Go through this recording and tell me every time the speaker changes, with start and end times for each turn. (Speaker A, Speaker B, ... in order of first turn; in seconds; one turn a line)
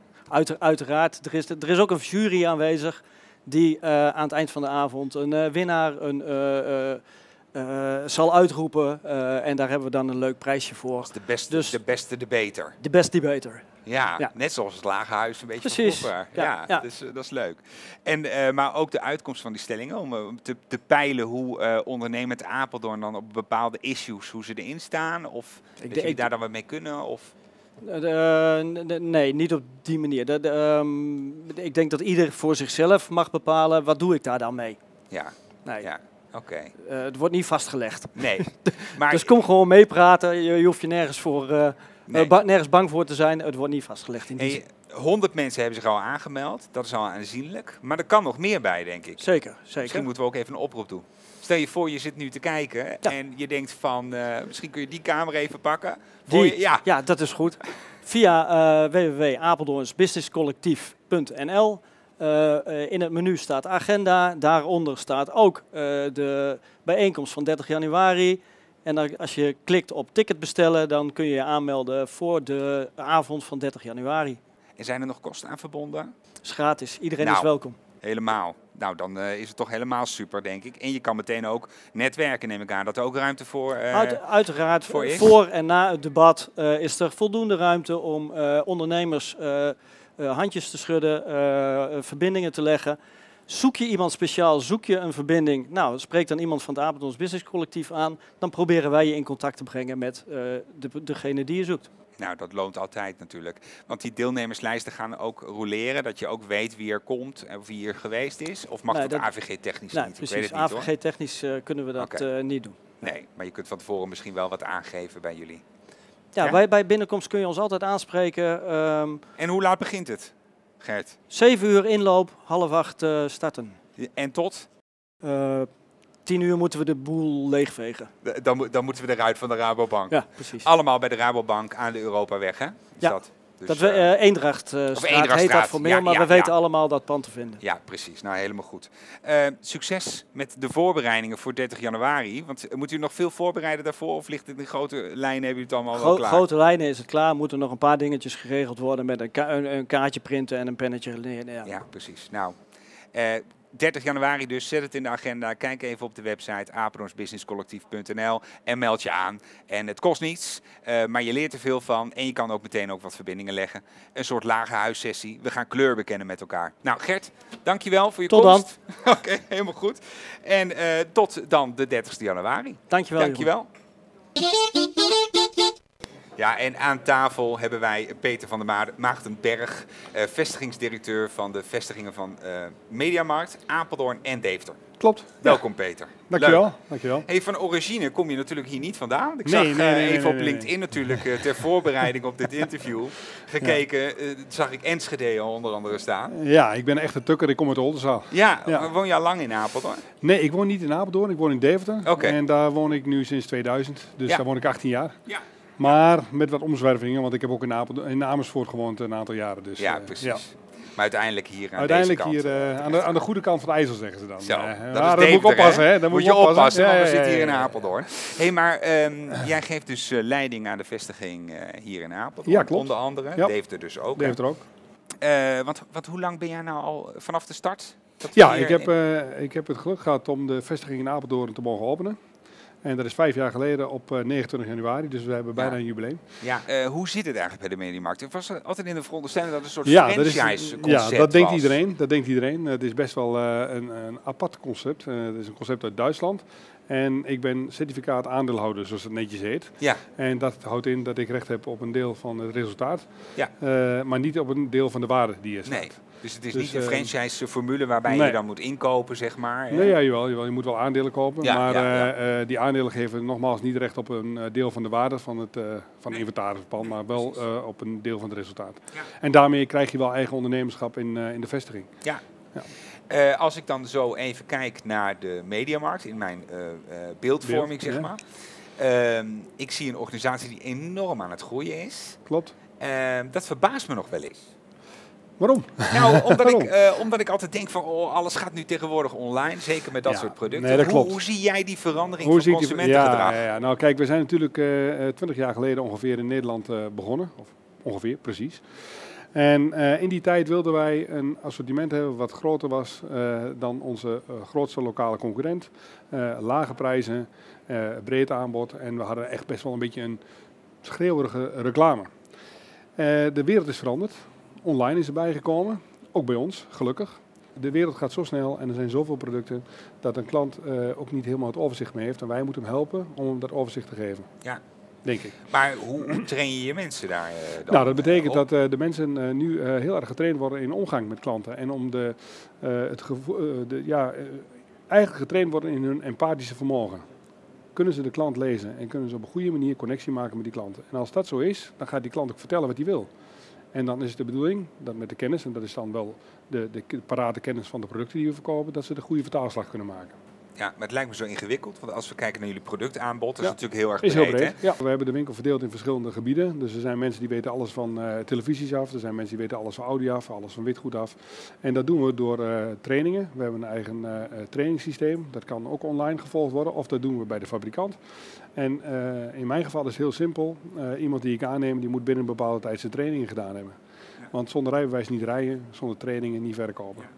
Speaker A: 0.3-7.0
Speaker A: 7.5-11.8
Speaker B: 11.1-12.8
Speaker A: 12.8-13.7
Speaker B: 13.9-27.3
Speaker A: 15.6-16.9
Speaker A: 25.8-26.2
Speaker A: 27.8-34.8
Speaker B: 35.1-36.7
Speaker A: 36.8-44.6
Speaker B: 38.2-39.3
Speaker B: 44.4-49.2
Speaker A: 49.2-50.1
Speaker B: 49.8-56.9
Speaker A: 56.3-74.4
Speaker B: 74.8-76.1
Speaker A: 76.4-77.8
Speaker B: 77.2-77.5
Speaker B: 78.0-84.2
Speaker A: 83.9-101.9
Speaker B: 84.9-85.4
Speaker B: 102.2-110.9
Speaker A: 108.9-109.3
Speaker A: 109.9-113.1
Speaker B: 113.0-115.6
Speaker A: 116.3-119.2
Speaker B: 119.4-121.2
Speaker A: 121.3-123.8
Speaker B: 124.0-124.7
Speaker A: 125.2-125.7
Speaker A: 126.2-128.1
Speaker B: 128.2-134.1
Speaker A: 130.1-130.7
Speaker A: 133.0-137.6
Speaker B: 134.9-136.5
Speaker B: 137.6-146.4
Speaker A: 145.9-151.7
Speaker B: 151.7-152.6
Speaker B: 153.1-173.7
Speaker A: 168.3-168.7
Speaker A: 172.9-173.5
Speaker B: 176.4-184.8
Speaker C: 185.0-185.6
Speaker B: 185.4-186.7
Speaker C: 186.3-187.2
Speaker B: 187.2-196.3
Speaker C: 189.5-191.2
Speaker C: 196.3-198.9
Speaker B: 198.3-200.0
Speaker C: 200.2-205.2
Speaker B: 202.1-202.4
Speaker C: 205.8-210.4
Speaker B: 209.8-213.2
Speaker C: 211.8-217.8
Speaker B: 214.4-224.4
Speaker C: 222.5-223.5
Speaker C: 224.2-224.6
Speaker B: 225.2-228.9
Speaker C: 228.4-232.2
Speaker C: 232.8-236.2
Speaker B: 236.4-241.8
Speaker C: 239.9-253.1
Speaker C: 253.6-257.1
Speaker B: 255.7-259.9
Speaker C: 258.1-258.4
Speaker C: 259.7-271.9
Speaker B: 261.4-262.1
Speaker B: 266.9-267.3
Speaker B: 273.1-278.2
Speaker C: 277.4-278.1
Speaker B: 278.8-282.2
Speaker C: 282.3-282.5
Speaker B: 282.8-284.5
Speaker C: 285.4-286.7
Speaker B: 285.9-293.4
Speaker C: 290.1-291.2
Speaker C: 292.2-310.2
Speaker C: 310.8-312.1
Speaker C: 313.0-324.3
Speaker C: 325.1-325.4
Speaker B: 325.5-328.4
Speaker C: 327.7-337.1
Speaker C: 337.7-343.1
Speaker C: 343.7-350.2
Speaker B: 350.6-354.6
Speaker C: 353.4-368.0
Speaker C: 368.6-373.8
Speaker C: 374.3-377.1